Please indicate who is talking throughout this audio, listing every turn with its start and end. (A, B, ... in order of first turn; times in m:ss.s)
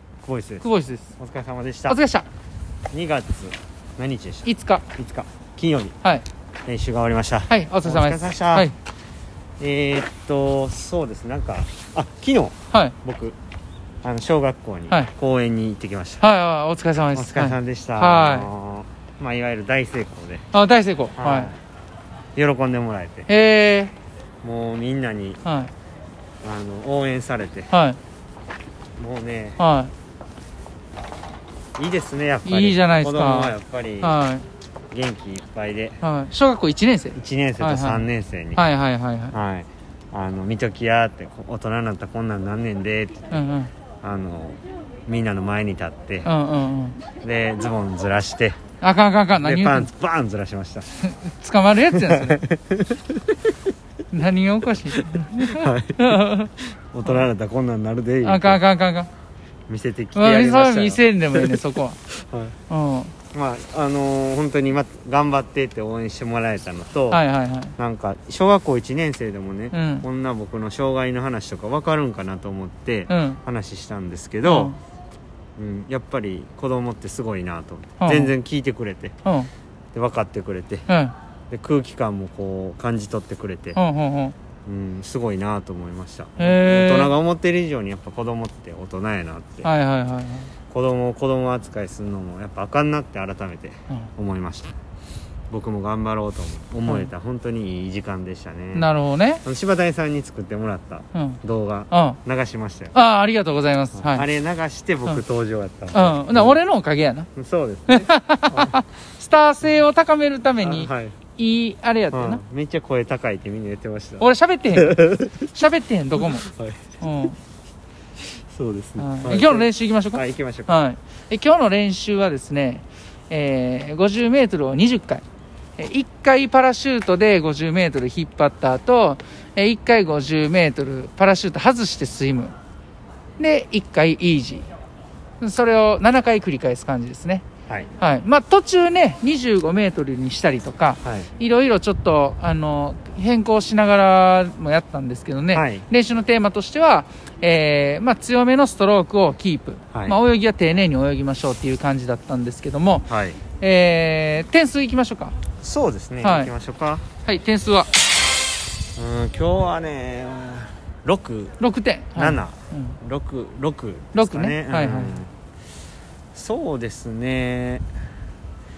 0:00.2-0:00.7 A
0:00.6-0:01.1 B
0:01.2-0:02.0 A
0:01.9-0:02.2 B
0:02.9-0:06.0 A
0:04.4-0:04.8 B
0:06.6-0:08.7 A
0:07.5-0:08.7 B
0:09.6-0:13.4 A
0:14.0-0:16.2 A
0:16.2-0:18.5 B
0:17.1-0:20.5 A
0:20.5-0:21.5 B
0:21.2-0:21.6 A
0:22.3-0:23.3 A
0:23.3-0:23.9 B
0:24.4-0:25.4 A
0:25.4-0:25.7 B
0:26.4-0:27.7 A
0:27.7-0:28.0 B
0:29.0-0:29.6 A
0:29.6-0:29.9 B
0:31.8-0:34.2 A
0:32.4-0:34.4 B
0:34.9-0:36.0 A
0:36.0-0:39.3 B
0:37.1-0:38.6 A
0:39.3-0:43.4 A
0:43.3-0:43.7 B
0:44.0-0:46.3 A
0:46.2-0:47.0 B
0:47.2-0:48.6 A
0:48.8-0:49.9 B
0:49.3-0:50.9 A
0:51.0-0:52.4 B
0:51.9-0:53.3 A
0:54.1-0:56.5 B
0:55.1-0:58.6 A
0:58.2-0:59.1 B
0:59.7-1:02.6 A
1:00.1-1:02.0 B
1:02.7-1:03.1 B
1:03.3-1:07.2 A
1:07.1-1:07.7 B
1:07.8-1:14.8 A
1:09.7-1:10.0 B
1:13.1-1:13.4 B
1:14.4-1:14.8 B
1:15.6-1:19.1 A
1:18.0-1:18.3 B
1:19.2-1:19.5 B
1:19.9-1:20.9 A
1:20.9-1:21.1 B
1:21.5-1:23.8 A
1:23.7-1:24.3 B
1:24.6-1:29.7 A
1:26.4-1:27.1 B
1:29.6-1:30.5 B
1:30.7-1:34.8 A
1:35.5-1:38.9 A
1:38.7-1:39.4 B
1:39.4-1:42.9 A
1:41.1-1:41.4 B
1:41.9-1:42.2 B
1:42.9-1:44.2 B
1:43.9-1:46.6 A
1:45.9-1:47.3 B
1:47.3-1:48.8 A
1:47.9-1:52.4 B
1:50.6-1:51.2 A
1:52.1-1:55.6 A
1:54.2-1:56.5 B
1:56.2-1:57.0 A
1:57.0-1:57.4 B
1:58.2-2:00.8 A
1:59.0-2:05.2 B
2:05.8-2:12.5 B
2:13.4-2:14.6 B
2:15.4-2:17.4 B
2:18.0-2:35.4 B
2:21.0-2:21.3 A
2:25.5-2:25.8 A
2:33.1-2:33.4 A
2:35.6-2:37.0 A
2:36.2-2:36.5 B
2:37.2-2:37.9 B
2:39.0-2:41.6 A
2:41.6-2:43.0 B
2:42.1-2:45.3 A
2:44.1-2:45.2 B
2:46.3-2:47.8 A